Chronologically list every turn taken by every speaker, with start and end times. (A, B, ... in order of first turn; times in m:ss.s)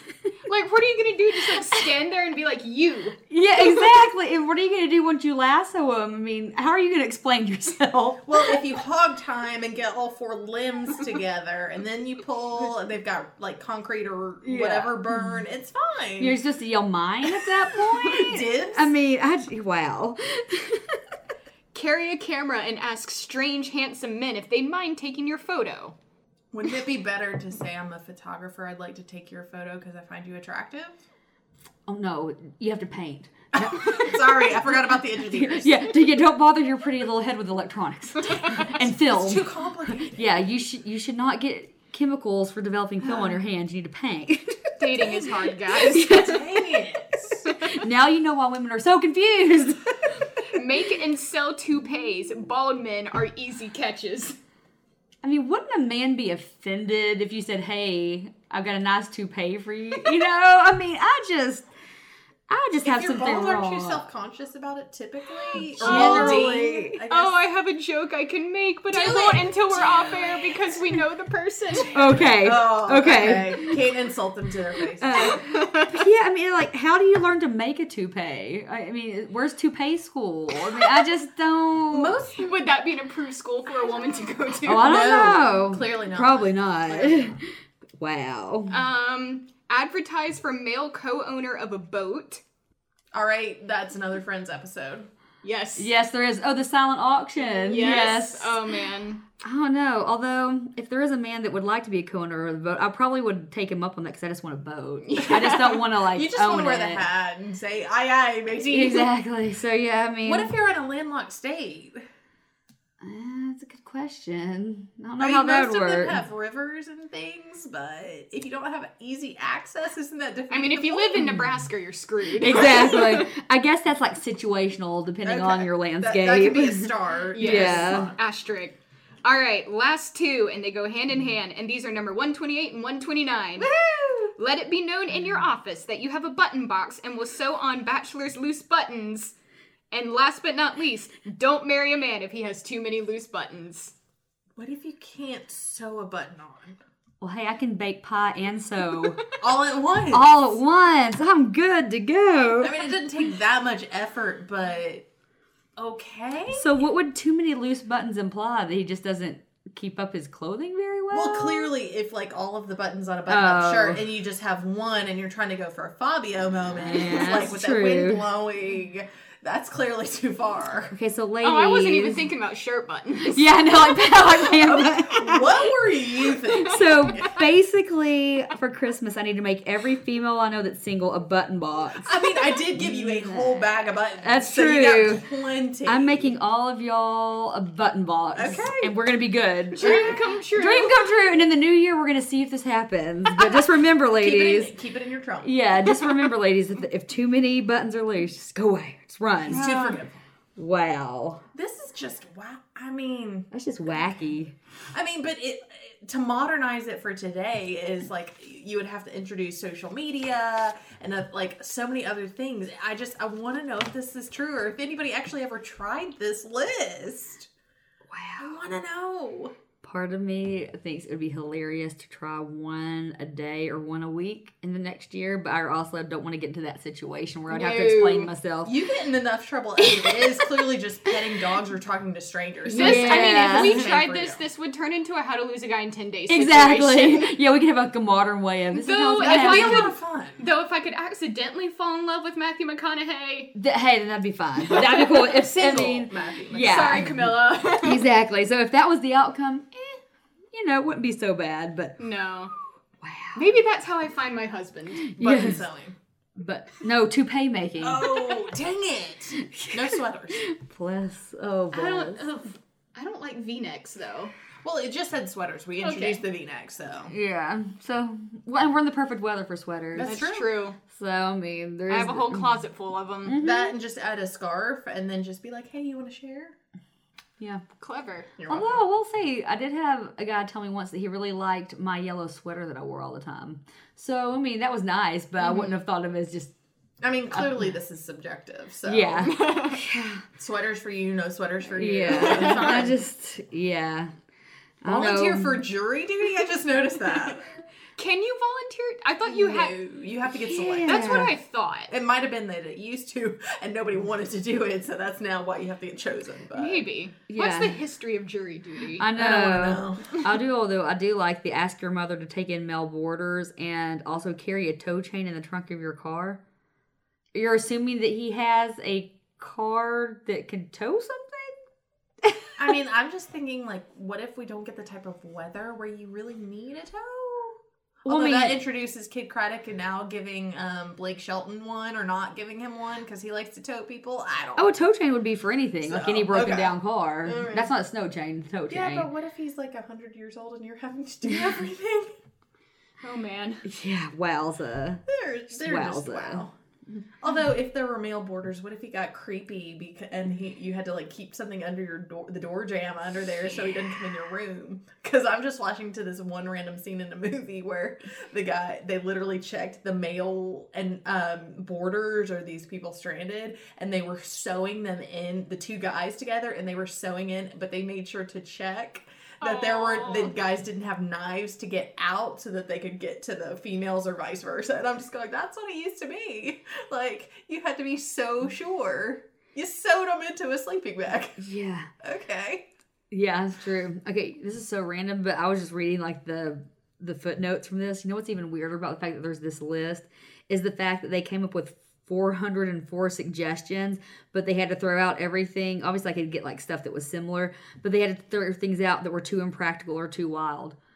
0:00.4-0:04.1 A
0:03.3-0:08.5 B
0:08.2-0:16.4 C
0:14.4-0:15.4 B
0:16.2-0:21.0 B
0:18.0-0:18.9 C
0:21.7-0:25.9 A
0:26.5-0:31.0 C
0:31.9-0:39.5 B
0:33.5-0:35.8 C
0:38.2-0:40.3 C
0:40.1-0:46.6 B
0:43.0-0:43.4 C
0:44.8-0:46.4 A
0:46.0-0:47.4 C
0:47.4-0:47.8 A
0:47.4-0:50.1 B
0:50.5-0:54.4 A
0:55.2-1:01.6 B
1:02.5-1:04.0 B
1:02.8-1:07.5 C
1:05.6-1:07.0 B
1:05.8-1:06.5 A
1:07.1-1:12.1 A
1:08.9-1:11.0 C
1:11.8-1:15.4 C
1:11.9-1:13.7 B
1:15.0-1:22.2 B
1:15.1-1:16.1 A
1:21.9-1:25.0 A
1:24.6-1:27.4 C
1:24.6-1:28.8 B
1:28.7-1:32.4 A
1:33.1-1:35.1 C
1:35.4-1:35.9 A
1:35.8-1:38.6 B
1:37.6-1:39.2 A
1:39.4-1:47.0 B
1:45.0-1:45.8 A
1:45.3-1:49.1 C
1:48.6-1:50.5 B
1:50.2-1:52.0 C
1:53.0-1:56.2 B
1:55.2-2:01.2 C
2:00.5-2:03.3 A
2:01.2-2:01.6 B
2:02.4-2:08.1 B
2:05.2-2:08.2 C
2:07.3-2:13.7 A
2:13.6-2:14.3 B
2:14.4-2:19.3 A
2:19.9-2:23.9 A
2:24.6-2:26.8 C
2:27.2-2:29.2 B
2:29.4-2:30.6 C
2:30.1-2:32.8 B
2:32.6-2:35.0 C
2:35.8-2:36.7 C
2:36.5-2:41.7 B
2:41.1-2:50.9 C
2:43.3-2:44.0 B
2:46.8-2:48.3 B
2:50.9-2:52.3 B
2:51.4-2:53.5 A
2:53.2-2:55.8 B
2:54.4-2:57.3 C
2:56.5-3:02.1 B
2:56.7-2:57.4 A
3:02.0-3:06.3 C
3:02.8-3:03.6 B
3:04.2-3:05.2 B
3:05.8-3:14.7 B
3:08.3-3:08.9 C
3:09.7-3:11.2 A
3:09.8-3:10.3 C
3:13.4-3:15.5 C
3:15.4-3:19.6 B
3:19.5-3:20.2 C
3:19.5-3:20.0 A
3:20.6-3:21.4 B
3:21.5-3:24.3 C
3:23.5-3:24.5 B
3:24.9-3:37.5 C
3:38.1-3:38.6 B
3:38.4-3:39.5 C
3:39.8-3:48.8 B
3:47.5-3:48.3 A
3:48.6-3:54.4 C
3:49.9-3:50.1 B
3:52.7-3:57.3 A
3:52.7-3:53.8 B
3:56.3-3:59.9 B
3:58.7-4:03.5 A
3:59.2-4:00.4 C
4:03.5-4:09.9 B
4:04.8-4:07.1 C
4:06.6-4:08.0 A
4:10.5-4:12.0 B
4:12.0-4:12.5 A
4:13.0-4:13.5 B
4:13.3-4:15.1 A
4:15.0-4:15.6 B
4:15.2-4:16.0 C
4:16.4-4:18.5 B
4:17.8-4:20.4 C
4:19.4-4:22.2 B
4:21.7-4:24.3 A
4:24.6-4:27.1 C
4:25.8-4:26.2 A
4:27.1-4:30.2 B
4:29.9-4:30.5 C
4:30.0-4:30.8 A
4:30.9-4:32.6 B
4:31.9-4:33.4 A
4:33.2-4:33.8 B
4:33.4-4:36.5 C
4:37.8-4:38.3 A
4:38.4-4:38.8 C
4:38.5-4:46.5 B
4:45.4-4:45.8 A
4:47.0-4:49.4 C
4:47.3-4:47.7 B
4:48.8-4:50.2 B
4:49.2-4:49.8 A
4:50.4-4:52.9 C
4:51.8-4:54.1 B
4:52.1-4:53.0 A
4:54.8-4:55.6 B
4:54.8-4:57.5 C
4:58.0-4:59.8 A
4:59.3-5:01.1 C
5:00.4-5:01.3 B
5:00.8-5:01.9 A
5:01.9-5:06.9 C
5:06.5-5:09.1 A
5:07.3-5:07.8 B
5:09.0-5:16.4 B
5:09.1-5:10.2 C
5:17.3-5:21.6 B
5:22.2-5:22.5 B
5:22.6-5:34.8 C
5:28.0-5:28.6 B
5:34.6-5:39.1 B
5:35.8-5:37.7 C
5:38.7-5:42.1 C
5:43.0-5:43.6 A
5:43.6-5:45.0 B
5:45.1-5:46.5 C
5:45.6-5:47.0 B
5:47.2-6:21.4 C
6:09.4-6:10.3 A
6:21.4-6:21.9 B
6:22.0-6:22.7 C
6:23.1-6:40.7 B